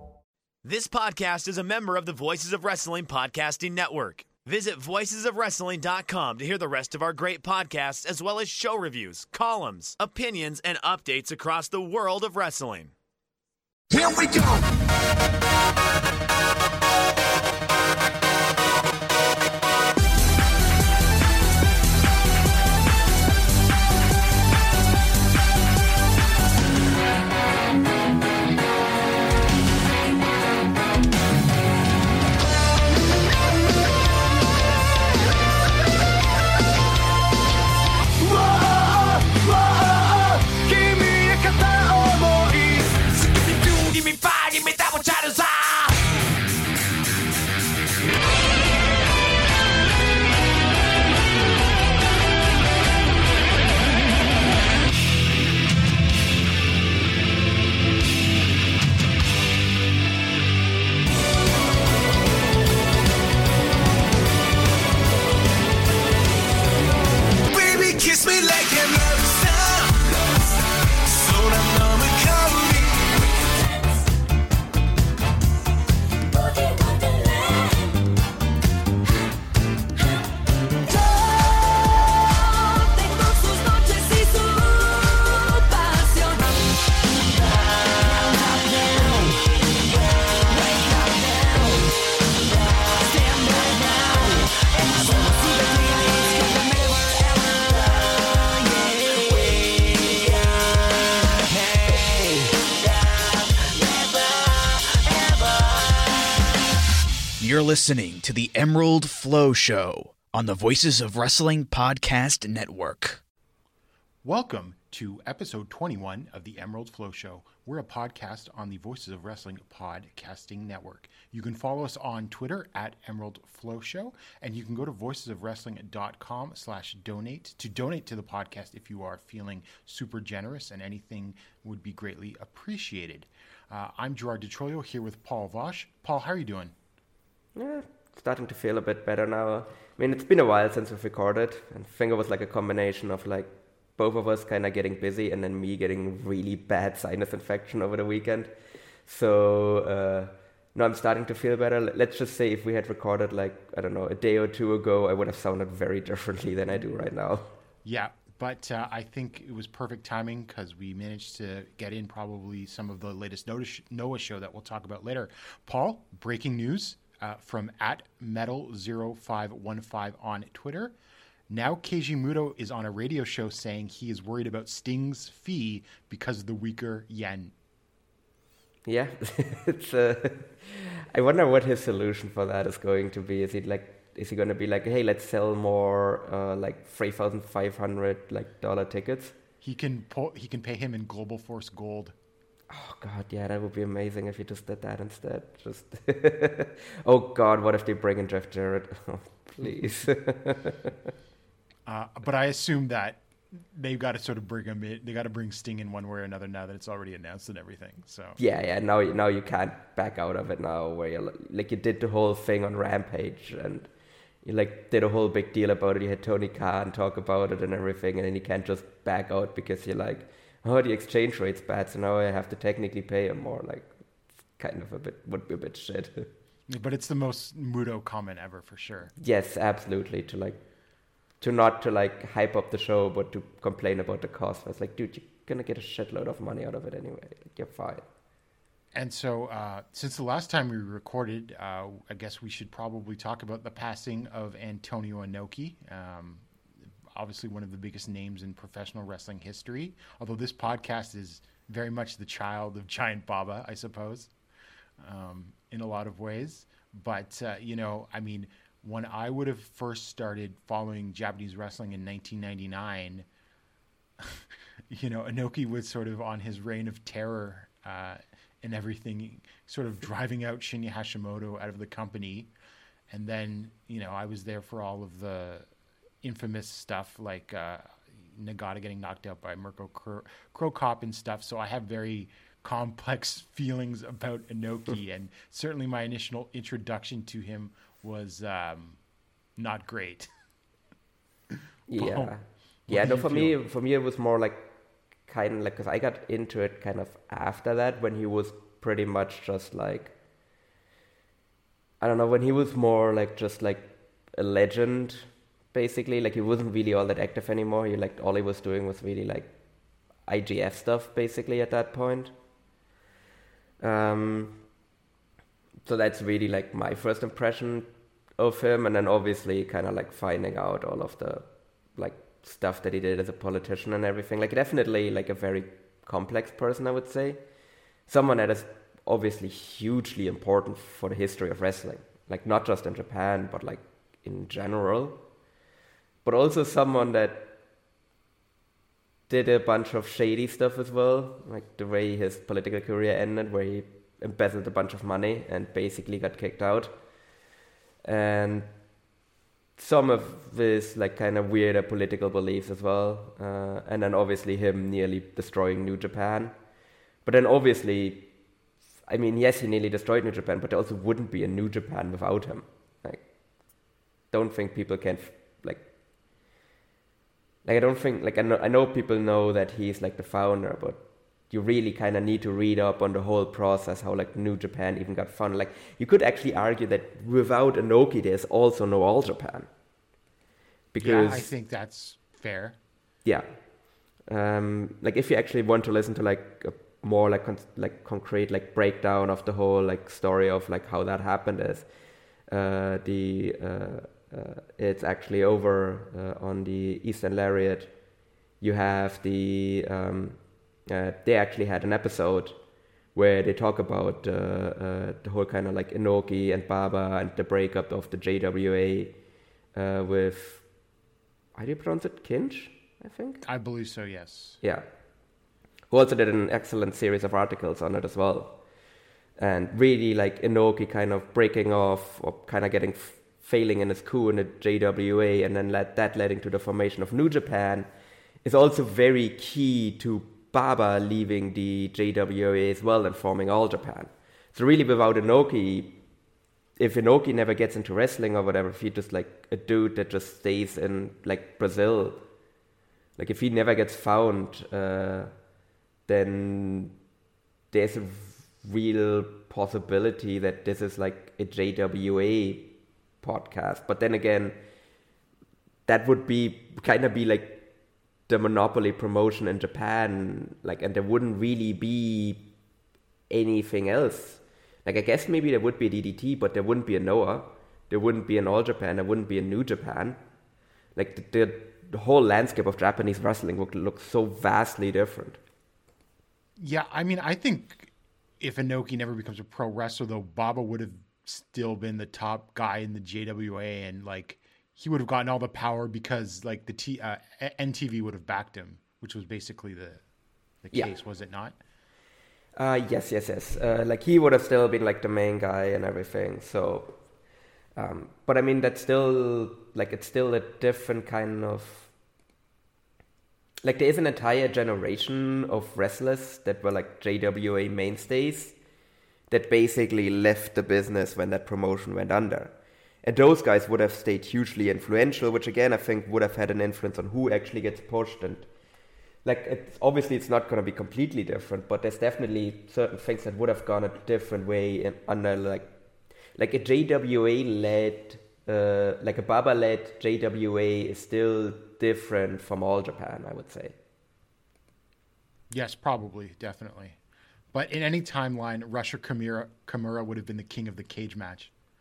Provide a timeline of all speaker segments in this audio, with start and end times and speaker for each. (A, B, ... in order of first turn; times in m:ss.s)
0:00.6-0:12.9 A
0:13.9-0:14.6 B
0:38.2-0:46.0 B
1:07.4-1:10.1 B
1:11.1-1:13.2 B
1:23.1-1:24.7 B
1:25.9-1:26.4 B
1:28.2-1:29.3 B
1:30.6-1:31.1 B
1:33.2-1:37.2 B
1:47.4-1:53.2 C
1:54.2-2:16.8 D
2:17.6-2:28.5 E
2:29.0-2:37.5 E
2:37.8-2:50.9 D
2:51.5-2:57.5 D
2:58.9-3:09.4 E
3:09.6-3:12.2 D
3:12.7-3:21.1 E
3:21.9-3:28.4 D
3:28.4-3:33.9 E
3:34.4-3:43.9 E
3:44.6-3:46.3 E
3:46.7-3:49.1 D
3:49.2-3:50.6 E
3:51.4-3:58.1 E
3:58.9-4:06.4 D
4:07.1-4:14.3 D
4:15.0-4:23.3 D
4:24.2-4:32.5 D
4:33.1-4:35.7 D
4:36.2-4:49.0 D
4:49.6-4:50.3 D
4:51.9-5:00.2 E
4:52.0-4:52.3 D
4:52.9-4:53.6 D
5:02.0-5:09.5 E
5:10.2-5:12.4 E
5:13.8-5:14.6 E
5:15.8-5:27.4 E
5:28.1-5:35.2 E
5:36.2-5:37.6 E
5:39.3-5:47.0 E
5:48.0-5:48.7 E
5:49.8-5:56.6 E
5:57.2-5:58.3 E
5:59.1-6:03.3 E
6:04.3-6:05.9 E
6:07.6-6:19.7 E
6:20.9-6:21.5 E
6:21.0-6:22.8 D
6:23.2-6:23.5 E
6:24.2-6:31.9 E
6:32.5-6:37.9 E
6:38.6-6:42.6 E
6:43.1-6:49.2 E
6:49.7-6:50.6 E
6:51.6-6:53.4 E
6:53.4-6:54.6 D
6:54.6-6:54.9 E
6:55.9-6:58.6 E
6:59.4-7:07.9 E
7:08.4-7:16.0 E
7:16.8-7:22.2 E
7:23.2-7:25.3 E
7:26.1-7:27.0 E
7:27.7-7:34.6 E
7:35.9-7:37.7 E
7:38.3-7:42.5 E
7:43.3-7:50.2 E
7:51.0-7:55.4 E
7:56.6-8:10.0 D
8:10.6-8:11.6 D
8:12.6-8:17.0 E
8:17.8-8:21.9 E
8:23.6-8:28.6 E
8:29.3-8:38.5 E
8:39.2-8:45.8 E
8:46.4-8:53.8 E
8:55.5-8:57.0 D
8:57.5-9:01.5 D